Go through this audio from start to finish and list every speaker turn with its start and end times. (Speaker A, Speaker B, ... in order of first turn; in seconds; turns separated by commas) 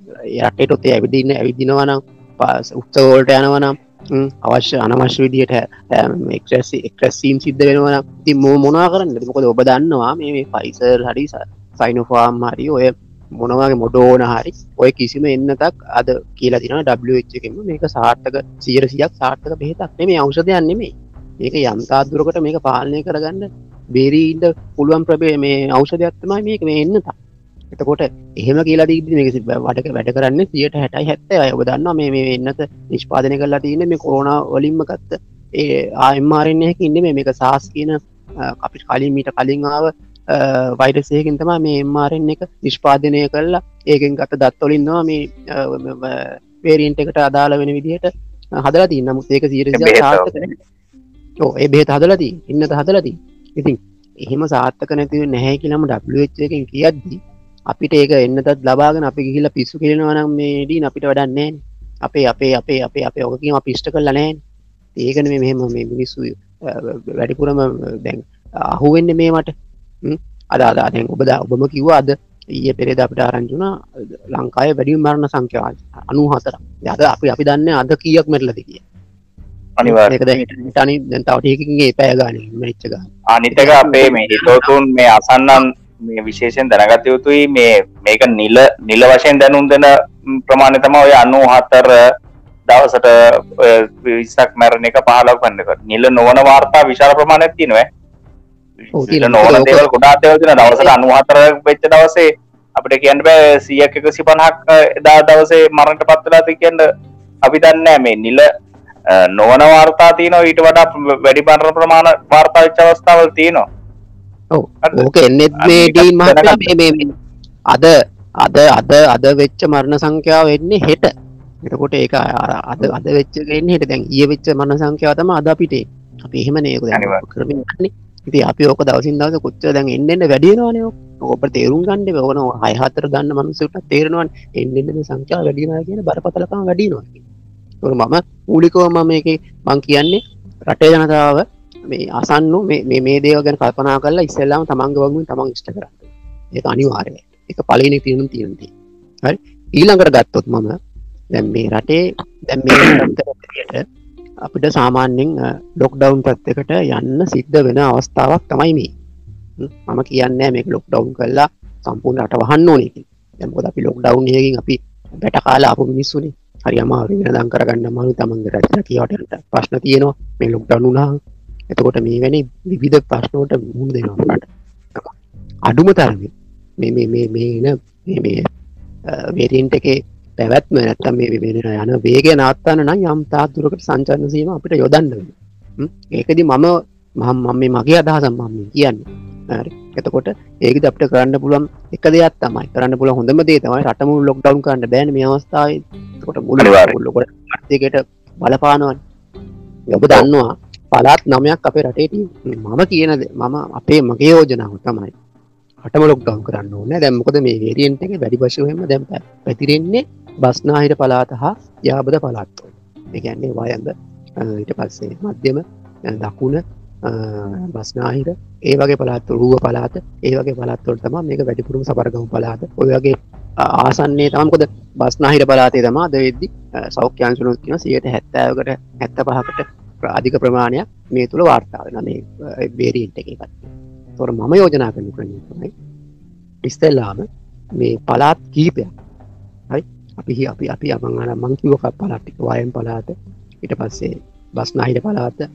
Speaker A: 0.4-27.1, Speaker A: 27.7-48.1, Speaker A: 48.6-50.3, Speaker B: 49.7-50.5, Speaker A: 51.4-64.4, Speaker A: 65.0-69.5, Speaker A: 70.0-78.8, Speaker B: 79.8-80.4, Speaker A: 79.8-84.7, Speaker B: 83.3-89.9, Speaker B: 90.5-91.9, Speaker B: 92.7-97.8, Speaker B: 98.9-106.8, Speaker A: 99.0-99.8, Speaker A: 100.6-100.9, Speaker B: 107.4-108.5, Speaker B: 109.1-113.6, Speaker A: 114.5-117.1, Speaker B: 115.6-116.6, Speaker A: 117.7-121.1, Speaker A: 121.6-137.2, Speaker B: 126.9-127.2, Speaker A: 137.8-148.7, Speaker A: 149.2-150.7, Speaker A: 151.3-153.8, Speaker A: 154.4-158.9, Speaker A: 159.6-171.1, Speaker A: 171.7-175.1, Speaker A: 175.7-178.4, Speaker A: 179.1-199.0, Speaker B: 196.6-196.9, Speaker A: 199.9-205.1, Speaker A: 205.8-235.7, Speaker A: 236.6-237.2, Speaker A: 237.8-238.9, Speaker A: 239.7-245.4